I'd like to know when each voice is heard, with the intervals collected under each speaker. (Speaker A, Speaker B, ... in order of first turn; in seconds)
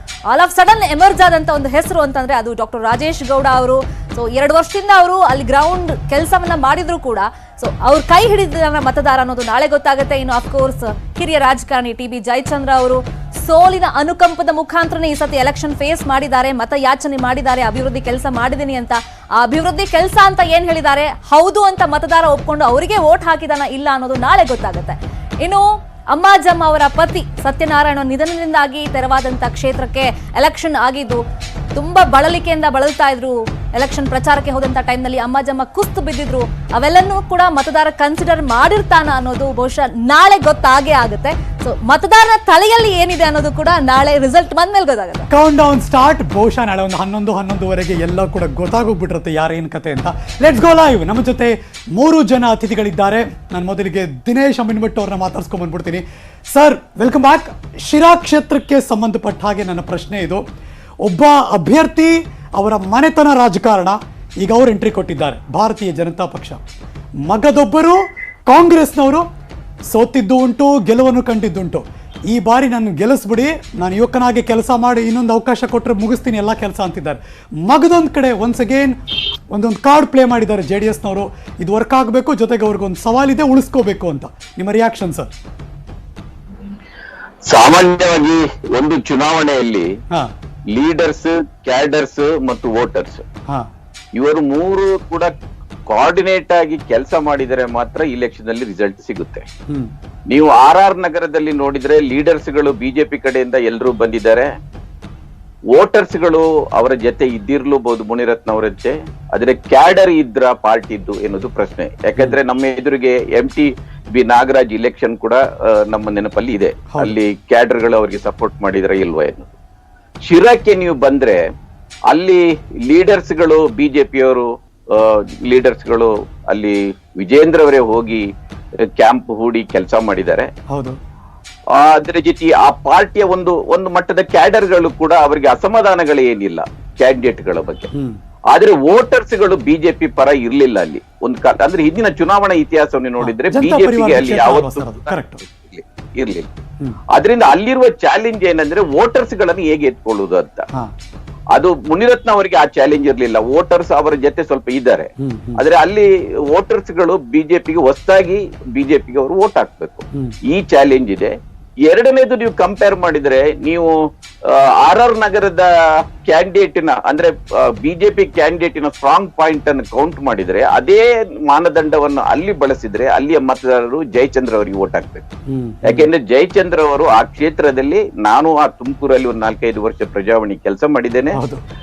Speaker A: 0.3-31.2, 31.7-45.3
Speaker B: 45.3-60.4, 61.0-66.6, 67.3-69.2, 69.9-79.0, 79.5-85.3, 116.9-117.2, 130.7-131.0, 137.9-138.2, 143.2-145.4, 155.2-155.6, 175.5-176.1, 181.3-181.6
Speaker C: 87.4-89.9, 90.7-93.2, 94.2-95.3, 95.9-99.5, 100.3-104.5, 105.7-119.5, 120.2-121.4, 122.1-128.2, 129.0-130.5, 131.7-137.9, 138.5-146.5, 147.1-150.6, 151.5-161.3, 161.8-163.9, 164.5-165.7, 166.2-175.2, 175.8-181.4